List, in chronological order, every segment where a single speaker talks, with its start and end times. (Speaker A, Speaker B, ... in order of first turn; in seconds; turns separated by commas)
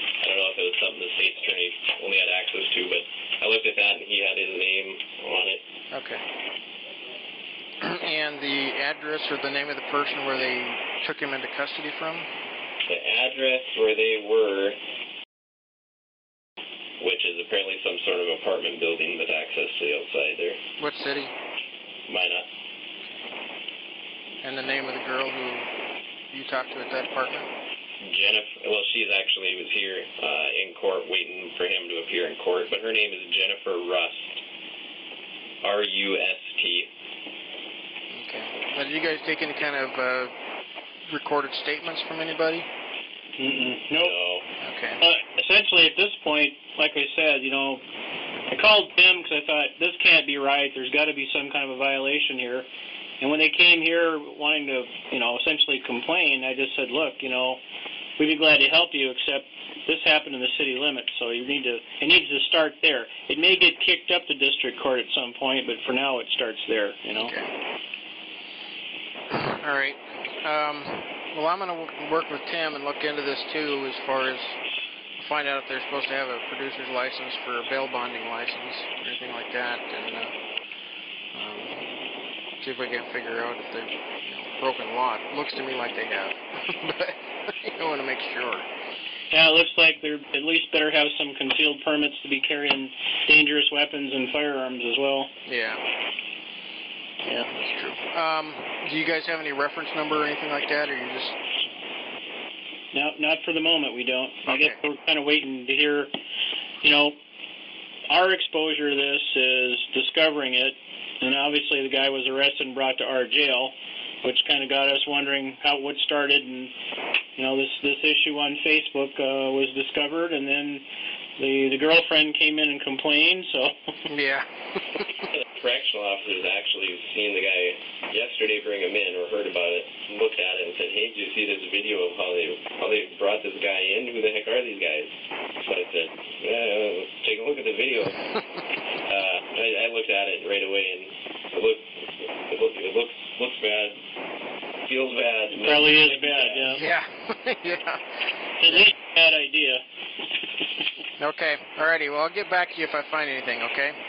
Speaker A: 0.2-5.6, Speaker B: 5.9-6.2, Speaker B: 7.8-12.3, Speaker A: 12.9-14.8, Speaker A: 17.0-20.6, Speaker B: 20.8-21.3, Speaker A: 22.1-22.5, Speaker B: 24.4-25.7, Speaker B: 26.3-27.5, Speaker A: 28.0-34.4, Speaker A: 35.6-36.9, Speaker B: 38.1-40.3, Speaker B: 41.1-42.7, Speaker C: 43.4-44.1, Speaker A: 44.0-44.5, Speaker B: 44.6-45.0, Speaker C: 45.0-47.8, Speaker C: 48.5-52.7, Speaker C: 53.2-57.6, Speaker C: 58.2-67.3, Speaker B: 67.1-67.5, Speaker B: 69.3-74.6, Speaker B: 75.2-80.3, Speaker B: 81.3-81.8, Speaker B: 82.6-88.7, Speaker C: 89.3-95.3, Speaker B: 95.5-95.8, Speaker B: 97.2-101.4, Speaker C: 102.9-106.1, Speaker B: 104.5-104.8, Speaker C: 106.8-107.2, Speaker C: 108.1-116.7, Speaker C: 117.4-120.8, Speaker C: 121.4-123.7, Speaker B: 124.1-125.3, Speaker A: 125.6-138.3, Speaker A: 139.0-144.0, Speaker A: 144.9-146.7, Speaker C: 145.5-146.8, Speaker B: 146.7-148.0, Speaker C: 148.6-149.8, Speaker B: 151.2-153.9